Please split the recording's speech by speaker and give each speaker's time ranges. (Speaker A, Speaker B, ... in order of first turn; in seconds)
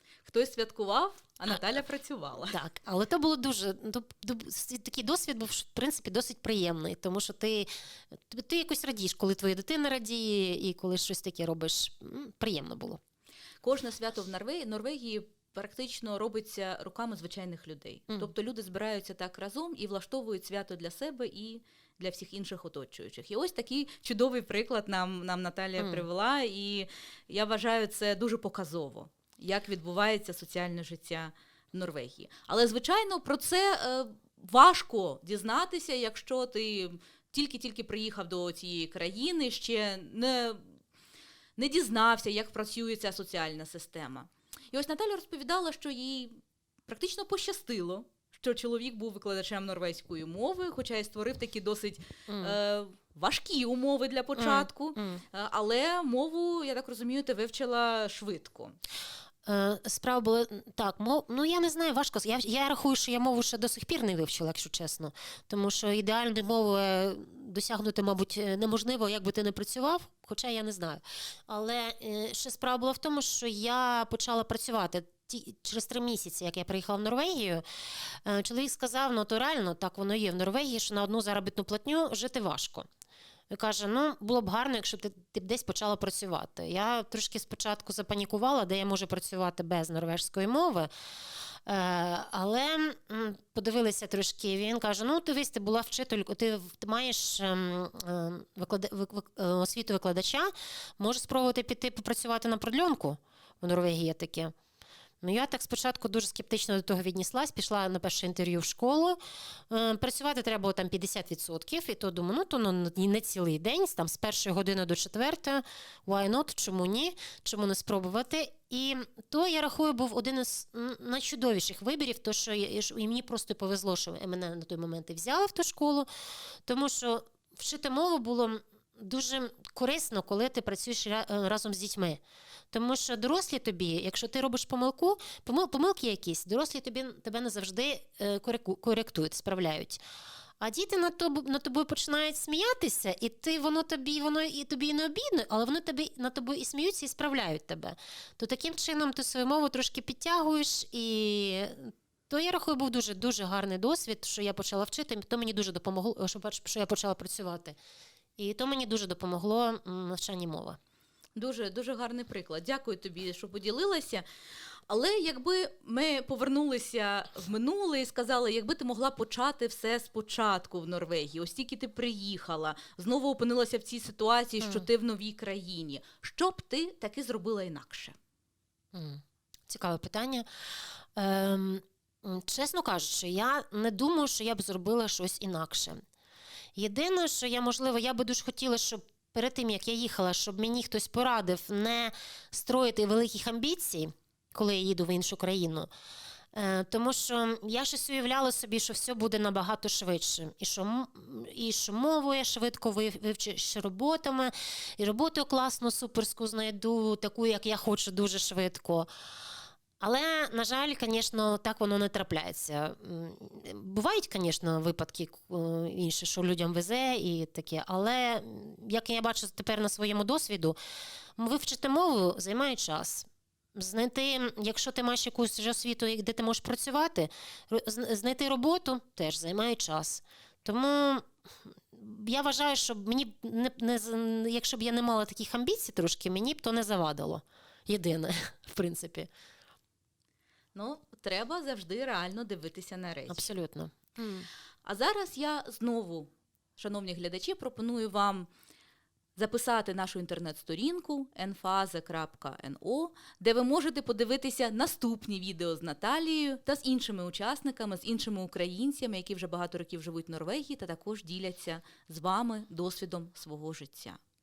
Speaker A: 0.2-2.6, 13.6-40.7, 41.6-46.4, 46.9-58.8, 161.4-164.2, 164.9-178.2, 240.7-243.5, 244.8-248.5, 249.4-264.2
Speaker B: 2.5-13.0, 25.8-26.1, 52.3-52.6, 54.4-55.2, 59.5-77.6, 78.2-82.9, 83.5-90.9, 91.7-104.5, 105.2-109.2, 109.7-126.1, 126.7-132.2, 132.7-140.0, 140.6-157.8, 158.4-160.8, 174.6-174.9, 178.9-180.5, 181.2-186.0, 186.8-195.9, 196.5-209.1, 210.0-220.8, 221.4-231.3, 231.9-239.3, 243.3-244.5